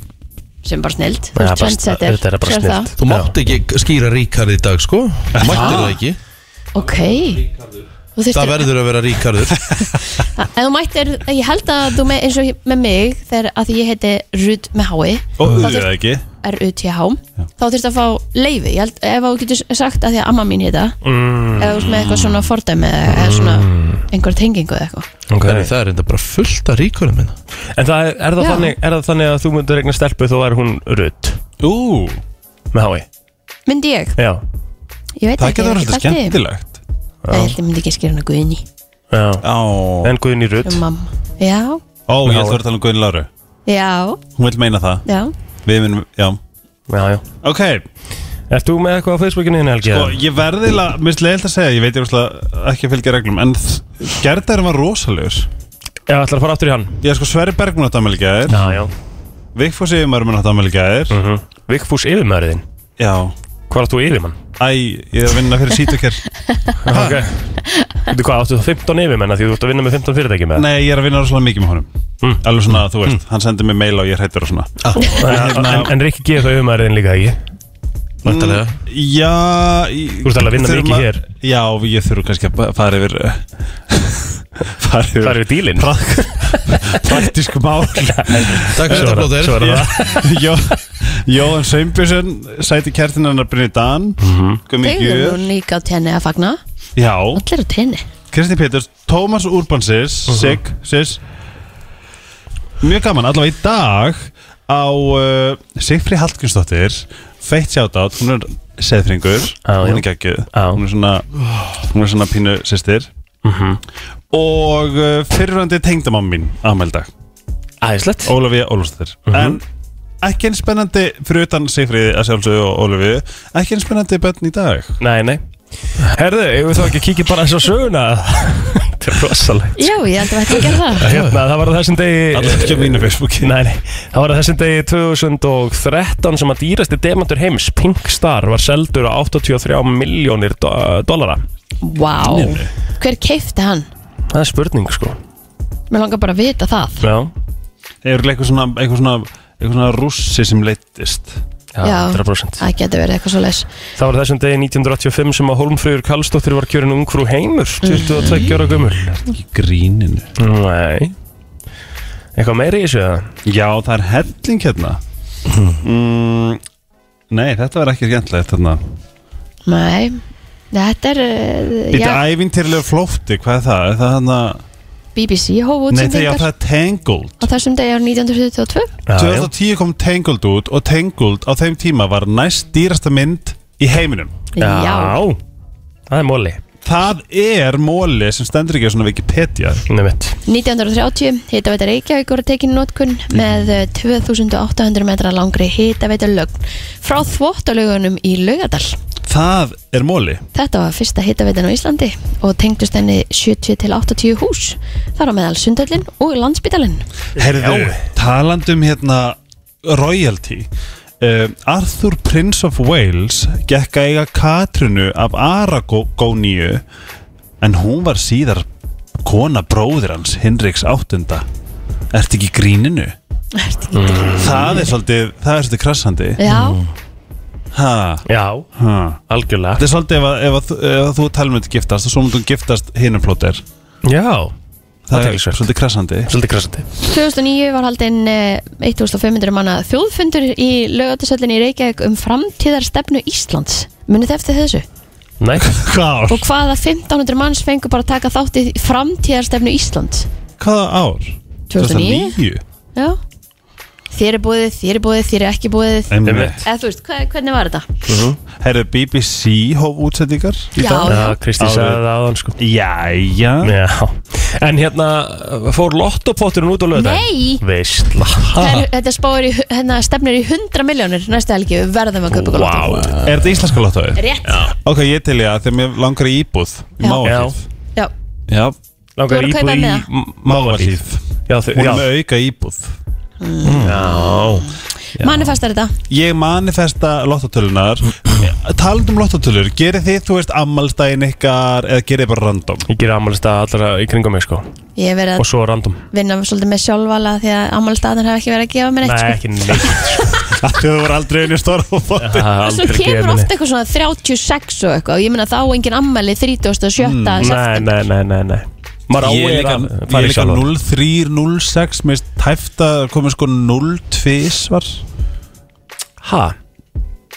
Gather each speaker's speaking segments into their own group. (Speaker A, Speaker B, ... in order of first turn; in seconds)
Speaker A: 0.6-2.9, 5.5-5.8, 6.7-7.5, 8.2-8.7, 10.2-21.0, 21.6-25.1, 28.4-28.8, 33.7-34.2, 35.2-36.4, 37.3-38.6, 40.6-41.8, 43.7-44.2, 45.1-45.3, 94.8-96.6, 97.3-98.1, 129.8-131.1, 141.8-143.9, 145.9-147.0, 151.8-153.7, 157.8-158.5, 169.7-170.2, 170.7-172.2, 175.2-176.5, 177.4-178.9, 184.5-185.2, 190.5-199.0, 200.5-207.1, 223.6-224.9, 226.4-226.8, 237.1-244.8, 246.3-250.3, 251.7-252.3, 252.9-253.2, 254.1-257.9, 260.8-261.4, 266.9-267.6, 268.5-273.2, 274.1-274.7, 279.3-280.1, 283.4-284.6, 285.2-285.9, 295.0-295.5, 296.1-300.2, 302.6-308.0
Speaker B: 1.4-3.3, 21.0-21.9, 23.1-24.0, 25.3-25.7, 27.8-31.4, 32.7-33.1, 37.2-37.6, 39.1-39.5, 40.0-40.8, 42.2-42.6, 46.9-47.2, 48.5-50.2, 56.1-57.0, 58.5-58.9, 61.1-62.6, 63.7-64.4, 66.8-67.5, 68.1-70.7, 75.0-77.4, 80.2-81.2, 85.2-87.3, 88.0-90.4, 94.2-94.6, 100.3-100.6, 109.7-110.8, 113.5-113.8, 117.8-118.3, 119.3-119.6, 125.0-125.4, 126.0-129.9, 130.5-141.4, 144.3-145.2, 147.0-147.3, 151.8-152.6, 154.0-159.1, 160.4-161.1, 162.4-163.3, 179.1-179.5, 184.6-185.4, 186.1-186.6, 189.9-190.4, 207.4-208.0, 223.9-224.8, 228.3-228.7, 229.3-229.8, 234.1-234.5, 235.1-235.6, 236.3-236.8, 245.4-245.7, 256.2-256.6, 258.1-258.4, 261.1-262.6, 263.6-268.5, 272.3-273.2, 274.4-274.8, 277.2-277.6, 279.2-282.1, 283.9-284.7, 292.9-294.7, 295.4-296.1, 299.0-300.3, 302.2-303.5, 307.4-310.7, 316.2-316.6
Speaker C: 3.0-6.2, 8.3-9.8, 25.4-27.4, 66.9-67.3, 74.8-75.1, 78.2-78.8, 88.7-89.9, 131.0-131.4, 165.5-165.8, 226.5-226.8, 268.5-268.9
Speaker D: 5.3-6.0, 15.4-16.2, 21.8-22.5, 31.6-32.2, 35.4-36.8, 39.4-40.1, 42.1-43.3, 44.4-45.0, 45.7-46.4, 47.4-47.9, 49.8-55.5, 57.0-58.6, 59.5-61.2, 63.0-63.3, 64.6-66.2, 70.5-71.9, 72.4-75.9, 78.2-95.5, 97.0-97.4, 98.3-101.2, 102.8-113.1, 114.3-117.1, 118.2-119.6, 120.2-125.0, 132.3-133.6, 142.2-142.7, 148.0-151.4, 158.3-160.3, 163.5-165.0, 165.8-166.6, 167.3-168.8, 171.9-174.6, 175.9-177.5, 179.2-184.3, 186.8-189.8, 199.3-200.4, 207.4-210.7, 211.2-216.8, 217.6-218.7, 219.2-221.5, 222.1-223.1, 224.4-226.4, 227.7-229.2, 229.8-233.6, 235.1-236.3, 245.6-246.5, 250.6-252.6, 256.1-256.7, 258.6-262.0, 262.6-263.7, 273.2-274.2, 274.8-277.6, 278.5-278.8, 280.4-281.2, 281.7-282.9, 283.6-284.0, 285.2-285.5, 286.1-292.9, 300.5-302.6, 307.0-307.5, 309.2-315.0